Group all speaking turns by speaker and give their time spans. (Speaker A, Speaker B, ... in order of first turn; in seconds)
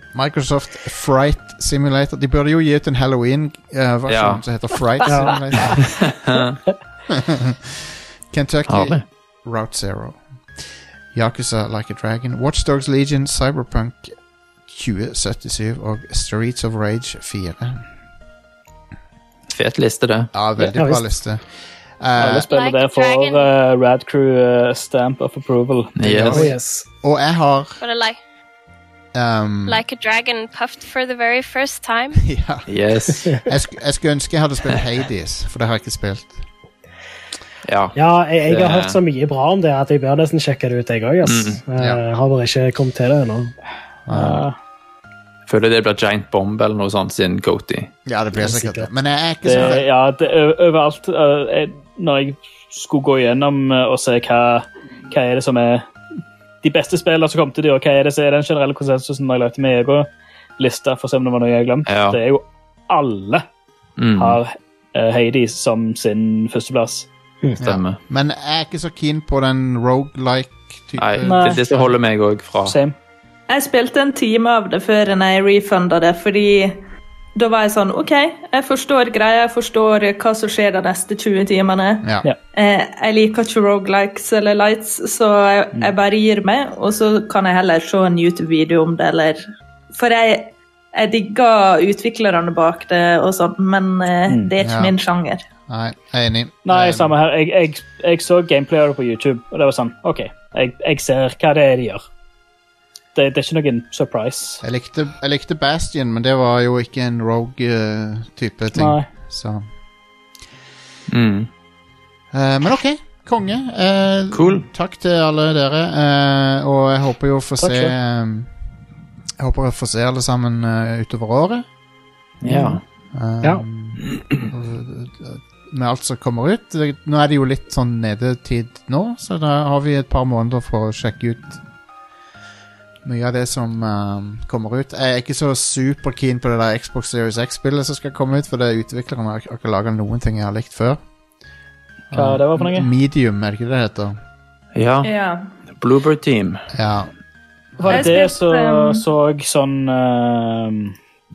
Speaker A: 0.1-6.1, 7.1-17.9, 20.3-21.4, 22.0-22.5, 27.0-27.8, 29.1-29.8, 32.2-36.4, 44.1-44.5, 48.1-49.9, 67.6-71.7, 94.6-94.9, 95.7-97.1, 104.6-109.7, 112.3-118.5, 119.4-121.7, 123.1-131.6, 133.0-141.0, 142.1-144.2, 146.7-147.1, 147.8-148.1
Speaker B: 4.1-4.8, 5.8-6.6, 8.7-9.1, 19.5-20.3, 26.0-26.5, 32.7-33.3, 37.6-39.0, 41.2-41.6, 45.5-47.9, 61.9-62.2, 64.0-64.4, 67.6-68.0, 71.0-72.8, 111.1-111.5, 114.3-114.7, 122.4-122.8, 144.8-145.1, 145.8-146.7
Speaker C: 5.1-5.8, 20.7-21.1, 26.3-26.9, 38.0-43.5, 48.4-48.9, 117.6-118.0
Speaker D: 22.2-26.6, 44.1-44.6, 49.4-55.9, 56.6-63.5, 64.2-67.1, 71.2-71.9, 72.7-73.0, 94.3-94.5, 96.7-102.0, 103.2-104.6, 108.7-109.1, 142.1-142.9, 147.8-151.0
Speaker E: 22.5-23.5, 27.8-28.2, 29.7-32.3
Speaker F: 73.5-76.8, 77.3-95.5, 145.0-145.5, 147.9-149.0